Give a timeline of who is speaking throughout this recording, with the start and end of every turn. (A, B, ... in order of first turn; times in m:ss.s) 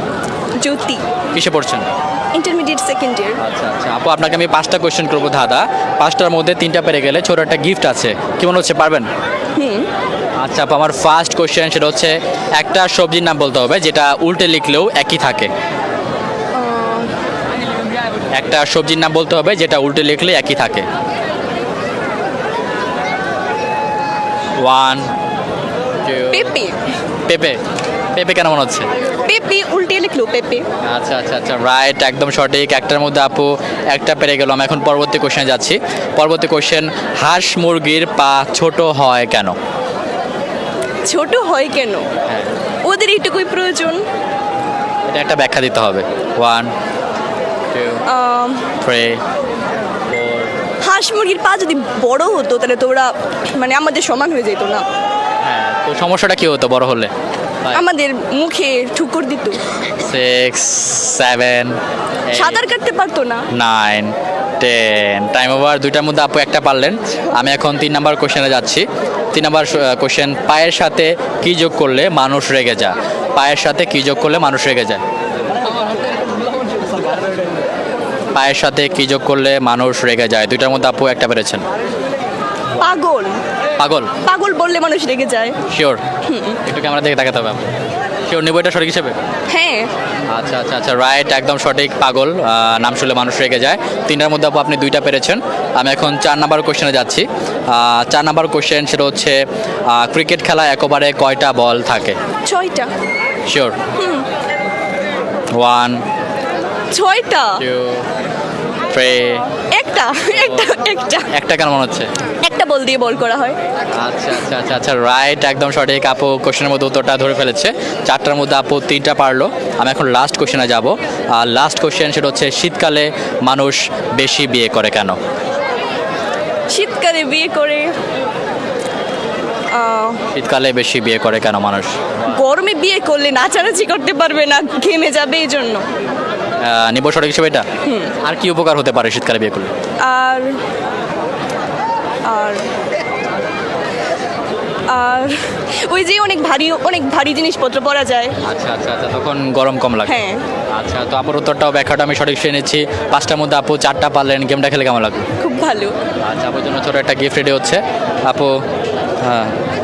0:00.6-0:01.0 A
0:01.3-0:01.9 B
0:02.4-0:03.4 A
0:03.4-0:09.1 B
0:09.6-0:09.9 A
0:10.4-0:15.5 B
0:16.6-0:17.1 A
0:18.4-0:20.9 B
0:24.6-0:25.1 B
0:26.0-0:26.5 B
0:26.3-0:26.8 A
0:27.3-0:27.6 B
0:28.2-0:28.9 B
0:29.2-0:30.6 A
0:30.8-0:39.6 B
0:41.0-0:42.1 A
0:42.8-0:44.0 A
0:45.1-0:46.7 B
0:47.7-0:48.0 B
0:48.1-0:48.7 A
0:48.8-0:49.2 B
0:50.1-0:50.5 B
0:50.8-0:54.9 A
0:55.4-0:57.1 B
0:57.7-0:59.6 A
1:00.0-1:02.6 B
1:02.3-1:03.5 A
1:03.5-1:15.0 B
1:18.3-1:21.6 B
1:22.8-1:23.4 A
1:23.8-1:24.1 B
1:24.2-1:25.6 A
1:25.7-1:26.0 B
1:26.3-1:26.6 A
1:26.6-1:27.6 B
1:28.3-1:29.2 B
1:29.5-1:29.9 A
1:30.3-1:42.2 B
1:42.4-1:42.9 A
1:43.5-1:43.8 B
1:44.0-1:44.3 A
1:45.6-1:46.0 B
1:46.9-1:47.6 A
1:47.6-1:48.0 B
1:48.9-1:49.5 B
1:49.7-1:51.3 A
1:51.3-1:52.1 B
1:52.4-1:53.6 A
1:54.0-2:05.2 B
2:06.7-2:07.9 A
2:09.7-2:10.2 A
2:10.3-2:12.2 B
2:12.3-2:15.8 A
2:16.6-2:17.7 B
2:17.8-2:18.1 A
2:18.2-2:19.7 B
2:20.0-2:20.6 A
2:22.3-2:22.7 A
2:24.9-2:28.4 A
2:28.4-2:30.2 B
2:30.1-2:30.4 A
2:30.7-2:35.3 B
2:35.4-2:36.0 A
2:36.2-2:38.6 B
2:39.2-2:39.6 B